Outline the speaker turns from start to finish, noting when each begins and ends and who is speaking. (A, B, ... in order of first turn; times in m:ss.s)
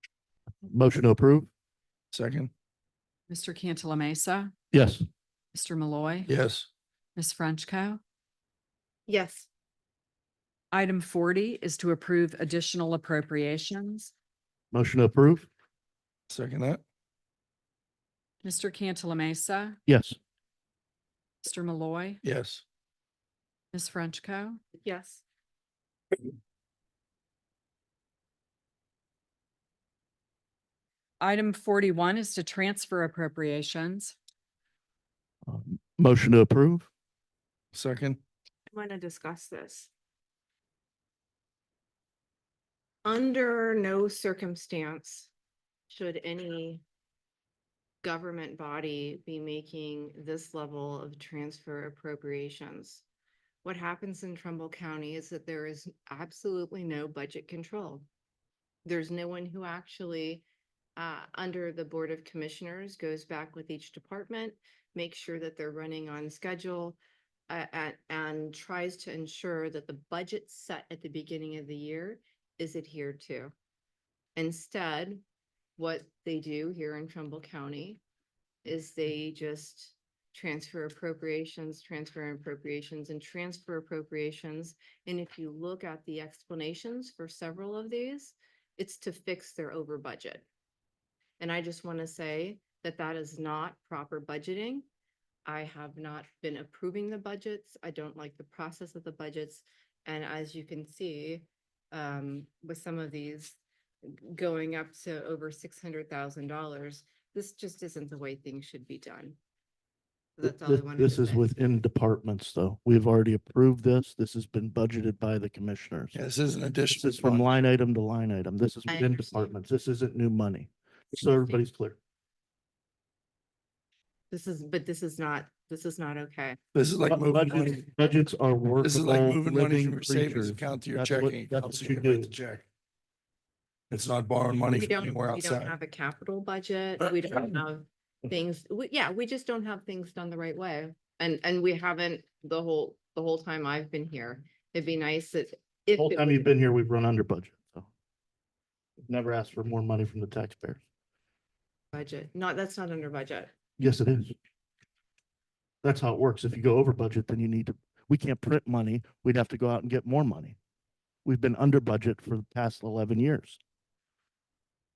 0:00.6-0:01.5 A
0:02.1-0:02.5 B
0:03.3-0:04.5 C
0:04.7-0:05.0 A
0:05.5-0:06.3 C
0:06.3-0:06.7 B
0:07.2-0:08.0 C
0:09.1-0:09.5 D
0:10.7-0:14.1 C
0:14.7-0:15.5 A
0:16.3-0:16.8 B
0:18.4-0:19.8 C
0:19.9-0:20.2 A
0:21.4-0:22.2 C
0:22.2-0:22.6 B
0:23.7-0:24.6 C
0:24.8-0:25.2 D
0:31.2-0:34.2 C
0:35.4-0:36.9 A
0:37.7-0:38.2 B
0:38.7-0:39.9 D
0:43.0-0:45.3 D
0:45.9-0:46.8 D
0:48.0-0:53.0 D
0:53.6-0:58.0 D
0:58.8-1:00.4 D
1:01.0-1:13.5 D
1:14.4-1:15.2 D
1:15.8-1:18.0 D
1:18.6-1:30.4 D
1:31.4-1:34.8 D
1:35.4-1:49.4 D
1:50.4-1:51.5 D
1:50.4-1:56.2 A
1:56.1-1:57.4 B
1:56.9-2:02.0 A
1:58.9-1:59.5 D
2:04.3-2:06.6 D
2:06.7-2:07.8 B
2:07.1-2:12.3 A
2:08.8-2:12.6 B
2:13.9-2:15.7 B
2:14.7-2:26.5 D
2:17.0-2:17.3 B
2:26.0-2:27.9 A
2:29.0-2:30.8 A
2:31.9-2:33.5 D
2:33.8-2:34.3 A
2:35.8-2:40.6 A
2:41.2-2:43.6 A